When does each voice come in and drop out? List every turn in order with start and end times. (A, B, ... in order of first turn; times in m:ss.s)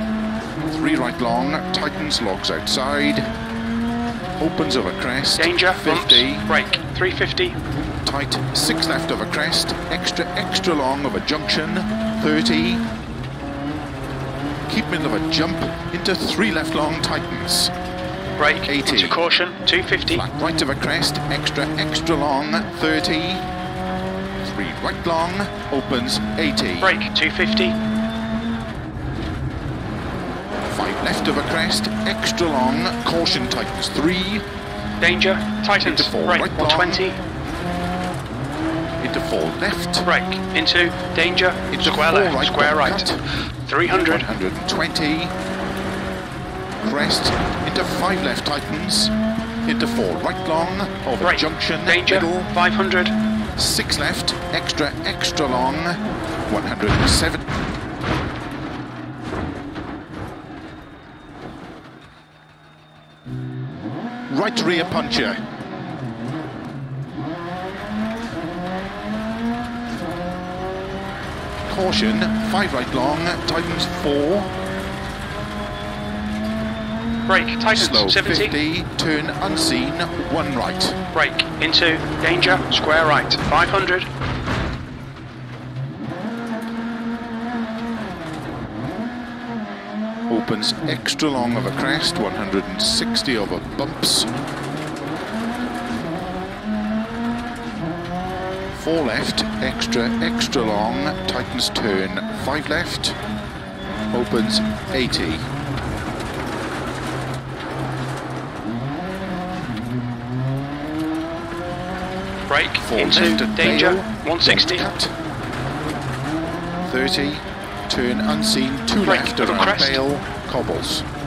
0:00.7-0:03.3 A
0:04.4-0:06.5 A
0:05.4-0:07.6 B
0:08.0-0:12.8 A
0:14.7-0:17.7 A
0:18.4-0:20.2 B
0:18.6-0:19.2 A
0:20.1-0:23.4 A
0:24.4-0:27.0 A
0:26.8-0:27.7 B
0:30.7-0:34.4 A
0:35.0-0:37.2 B
0:35.8-0:37.0 A
0:39.0-0:40.1 A
0:40.0-0:43.0 B
0:41.7-0:43.2 A
0:43.6-0:44.2 B
0:44.0-0:45.3 A
0:46.8-0:49.1 A
0:49.6-0:52.5 A
0:51.2-0:53.1 B
0:53.6-0:57.4 A
1:04.3-1:05.4 A
1:11.7-1:14.5 A
1:17.3-1:18.6 B
1:17.7-1:21.0 A
1:21.1-1:24.1 B
1:30.3-1:34.3 A
1:38.7-1:43.2 A
1:44.1-1:45.4 A
1:52.5-1:54.9 B
1:52.8-1:55.1 A
1:56.8-2:01.0 A
1:59.0-2:00.0 B